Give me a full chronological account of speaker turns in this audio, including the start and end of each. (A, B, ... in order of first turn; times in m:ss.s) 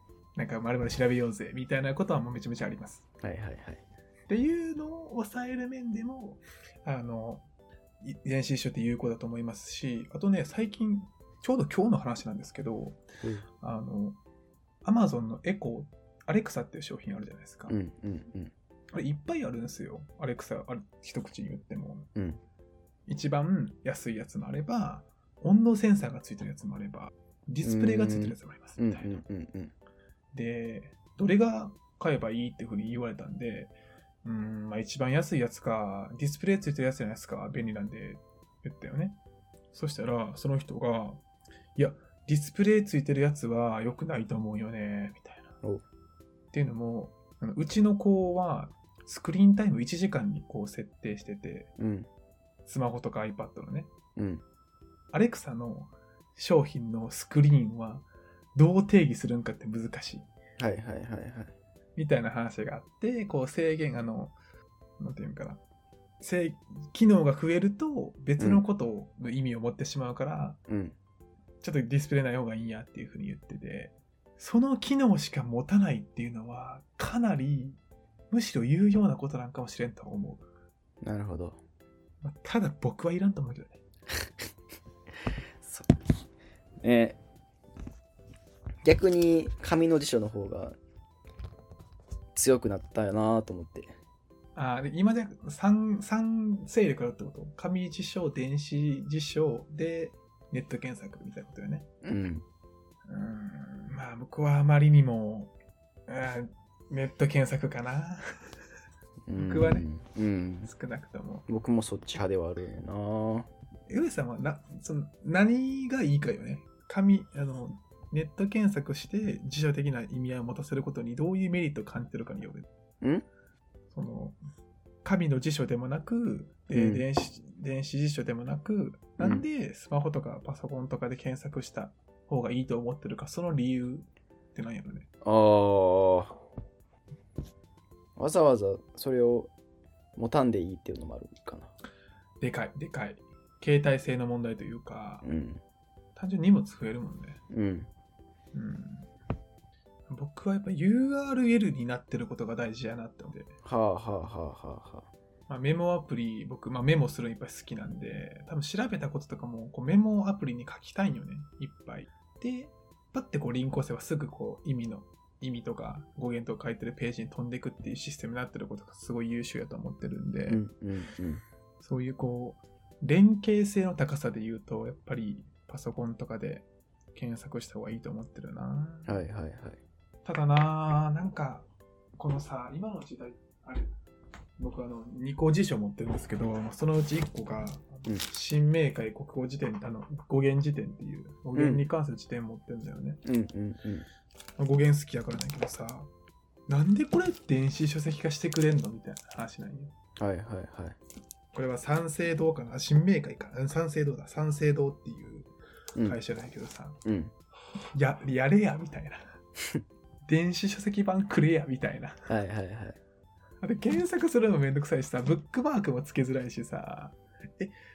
0:00.4-0:03.1 A
0:03.2-0:03.8 B
0:04.3-0:07.4 A
0:08.0-0:13.0 A
0:13.6-0:14.2 A
0:14.8-0:17.8 A
0:17.7-0:18.5 B
0:18.9-0:22.1 A
0:23.1-0:29.2 A
0:27.6-0:29.7 B
0:30.3-0:39.2 A
0:39.7-0:41.2 A
0:41.8-0:45.5 A
0:46.5-0:51.7 A
0:51.8-0:52.1 B
0:52.7-0:53.9 A
0:54.2-0:54.4 B
0:55.1-1:00.3 A
1:00.6-1:01.5 B
1:02.0-1:04.4 A
1:05.0-1:05.6 A
1:06.2-1:10.6 A
1:10.7-1:11.0 B
1:11.6-1:17.8 A
1:18.3-1:20.4 A
1:21.0-1:21.6 B
1:22.2-1:23.8 A
1:25.3-1:25.9 B
1:26.8-1:27.2 B
1:28.8-1:30.8 B
1:32.4-1:33.9 B
1:34.6-1:41.9 A
1:42.0-1:42.4 B
1:43.1-1:45.5 A
1:46.1-1:48.3 A
1:49.3-1:50.7 B
1:49.3-1:49.9 A
1:50.6-1:51.4 A
1:51.5-1:53.5 B
1:53.9-2:02.7 A
2:03.9-2:04.4 A
2:05.0-2:15.1 A
2:06.7-2:07.0 B
2:09.2-2:09.4 B
2:15.2-2:16.4 B
2:18.2-2:19.5 B
2:20.2-2:21.7 B
2:22.4-2:25.2 A
2:25.2-2:25.6 B
2:26.2-2:27.4 A
2:27.5-2:27.9 B
2:28.5-2:29.1 A
2:30.1-2:33.5 A
2:33.6-2:35.1 B
2:35.5-2:50.6 A
2:50.5-2:51.4 B
2:51.8-2:59.2 A
2:59.1-2:59.8 B
3:00.2-3:01.7 A
3:02.2-3:03.9 A
3:04.6-3:13.2 A
3:11.6-3:11.9 B
3:13.2-3:14.1 B
3:14.6-3:16.1 A
3:16.7-3:19.9 A
3:20.2-3:21.0 B
3:21.5-3:25.5 A
3:26.0-3:27.0 A
3:27.0-3:27.3 B
3:28.0-3:29.2 A
3:30.3-3:32.3 A
3:32.3-3:33.0 B
3:33.6-3:37.7 A